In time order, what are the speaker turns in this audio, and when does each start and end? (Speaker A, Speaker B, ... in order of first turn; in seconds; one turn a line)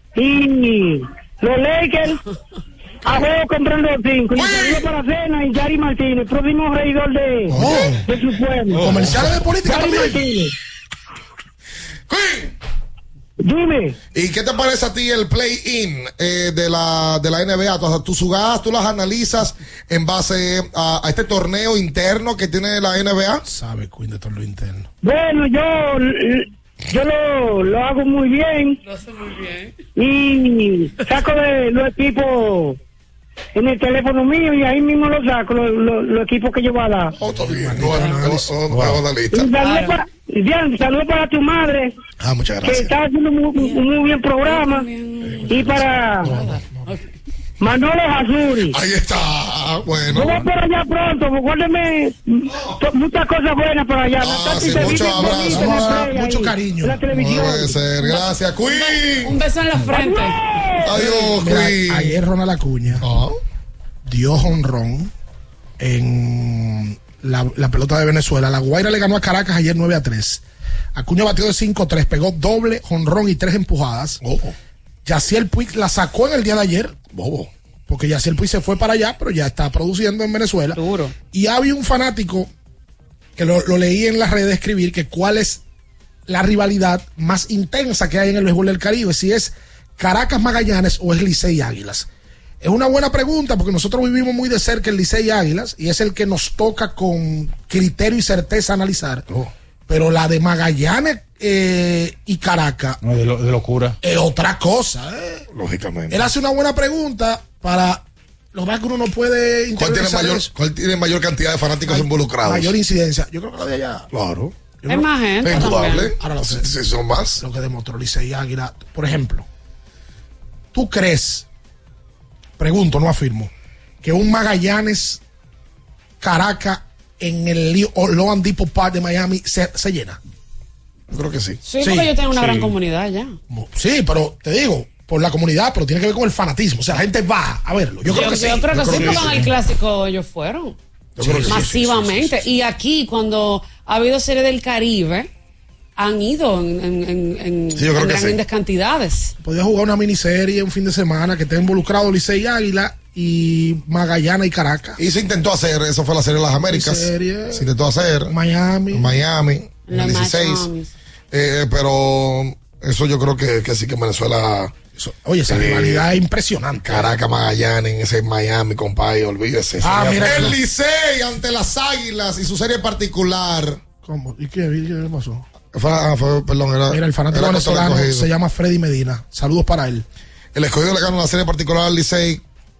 Speaker A: 0.1-2.2
Speaker A: 3.0-8.9
Speaker B: 4.3-4.9
Speaker B: 7.5-7.9
Speaker C: 7.5-8.1
Speaker C: 8.7-10.2
Speaker D: 8.7-9.3
Speaker A: 9.6-10.5
Speaker B: 12.1-12.5
Speaker A: 13.4-13.9
Speaker B: 14.1-23.4
Speaker C: 23.4-24.9
Speaker A: 25.0-28.8
Speaker E: 28.8-29.7
Speaker A: 29.9-32.8
Speaker A: 33.5-37.1
Speaker B: 37.2-39.5
Speaker C: 37.2-38.5
Speaker A: 39.3-41.9
Speaker E: 39.6-40.0
Speaker B: 42.2-42.9
Speaker A: 42.6-44.8
Speaker E: 43.5-43.9
Speaker E: 44.4-47.0
Speaker B: 45.2-46.6
Speaker A: 45.5-46.3
Speaker A: 47.6-48.8
Speaker B: 48.7-50.5
Speaker A: 50.1-58.3
Speaker B: 54.2-56.1
Speaker C: 54.6-57.5
Speaker B: 57.2-59.4
Speaker E: 58.8-60.5
Speaker A: 59.9-61.0
Speaker B: 60.8-62.2
Speaker C: 60.9-63.0
Speaker B: 63.0-63.4
Speaker C: 64.0-65.1
Speaker C: 65.8-70.4
Speaker C: 70.9-74.2
Speaker B: 74.2-74.5
Speaker C: 75.0-77.0
Speaker B: 77.1-77.5
Speaker C: 77.9-80.8
Speaker E: 80.7-81.1
Speaker C: 81.3-82.5
Speaker C: 83.4-85.6
Speaker C: 86.3-92.1
Speaker C: 92.6-99.2
Speaker C: 99.9-103.0
Speaker D: 103.0-104.0
Speaker C: 104.0-105.5
Speaker B: 105.5-106.2
Speaker C: 106.1-110.5
Speaker B: 109.8-112.7
Speaker C: 111.9-114.1
Speaker B: 114.1-114.5
Speaker C: 114.8-116.7
Speaker E: 114.9-116.1
Speaker B: 115.4-117.4
Speaker C: 117.4-119.5
Speaker C: 120.7-121.5
Speaker C: 122.6-123.5
Speaker C: 124.0-125.2
Speaker C: 126.2-130.2
Speaker B: 131.1-131.6
Speaker E: 131.6-133.3
Speaker C: 131.8-132.1
Speaker D: 132.3-132.7
Speaker C: 133.5-139.4
Speaker E: 138.1-140.8
Speaker D: 138.1-139.5
Speaker B: 141.2-141.6
Speaker C: 141.2-142.4
Speaker E: 141.5-145.3
Speaker E: 146.0-149.3
Speaker B: 147.7-148.4
Speaker C: 149.4-155.0
Speaker B: 155.0-158.3
Speaker C: 156.7-157.7
Speaker C: 158.2-159.1
Speaker B: 158.9-160.7
Speaker E: 159.8-160.9
Speaker B: 161.3-164.7
Speaker C: 164.9-167.2
Speaker B: 165.5-166.1
Speaker B: 166.8-173.8
Speaker C: 169.8-170.6
Speaker C: 174.0-175.4
Speaker B: 175.7-178.3
Speaker C: 176.9-180.0
Speaker B: 180.5-182.4